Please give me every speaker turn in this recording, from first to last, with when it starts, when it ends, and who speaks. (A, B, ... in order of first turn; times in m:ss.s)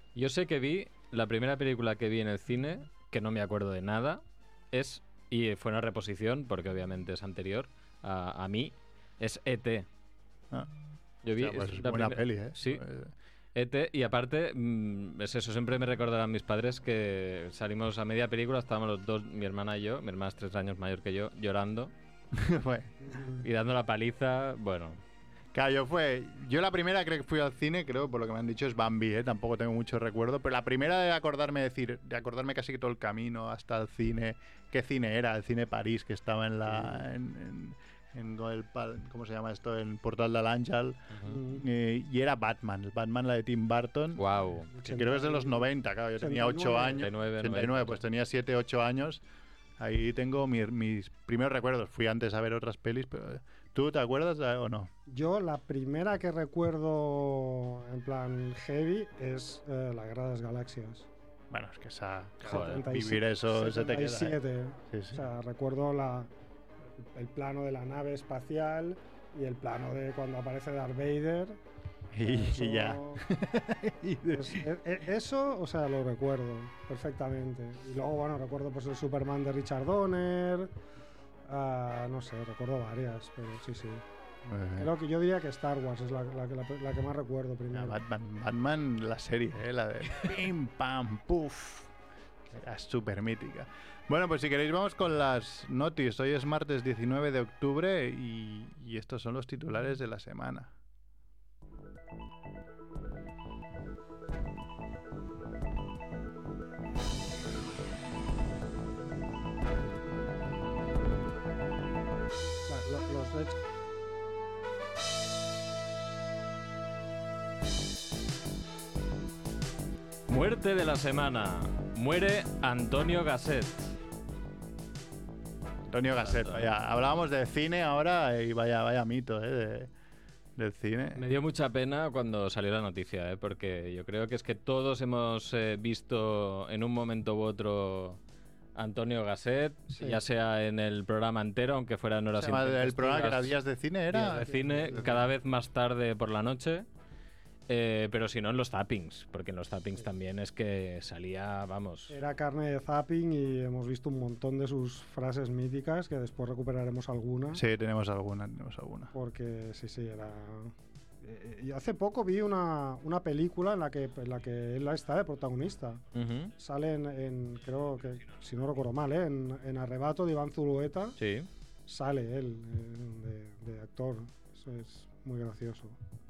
0:00.2-0:09.9 A
0:11.2-0:12.8 A
0:11.4-0:13.1 B
0:13.6-0:21.9 A
0:22.3-0:22.9 B
0:23.0-0:23.4 C
0:23.4-0:25.0 A
0:25.5-0:44.2 B
0:41.1-0:41.4 A
0:41.3-0:41.6 C
0:44.2-0:44.7 A
0:44.7-0:47.1 C
0:44.8-0:49.2 B
0:47.0-0:48.0 A
0:49.8-0:54.9 B
0:55.1-1:01.1 C
1:01.5-1:04.4 B
1:02.4-1:06.3 C
1:02.5-1:02.8 A
1:04.9-1:05.2 B
1:07.0-1:11.6 C
1:12.1-1:14.6 B
1:12.2-1:13.2 C
1:14.3-1:20.7 C
1:21.5-1:24.0 C
1:24.4-1:24.9 B
1:24.8-1:28.0 C
1:27.7-1:31.9 B
1:32.4-1:40.7 B
1:52.7-1:53.6 C
2:00.3-2:04.0 A
2:05.9-2:09.9 B
2:06.2-2:06.7 A
2:10.6-2:11.2 B
2:11.2-2:18.2 A
2:18.8-2:23.6 A
2:19.9-2:20.2 C
2:22.4-2:25.1 B
2:24.1-2:26.9 A
2:24.4-2:25.2 C
2:27.7-2:32.1 A
2:32.1-2:37.6 C
2:37.5-2:39.1 B
2:39.1-2:46.0 C
2:46.1-2:46.5 A
2:46.6-2:51.2 C
2:51.2-2:51.5 A
2:51.9-2:56.0 C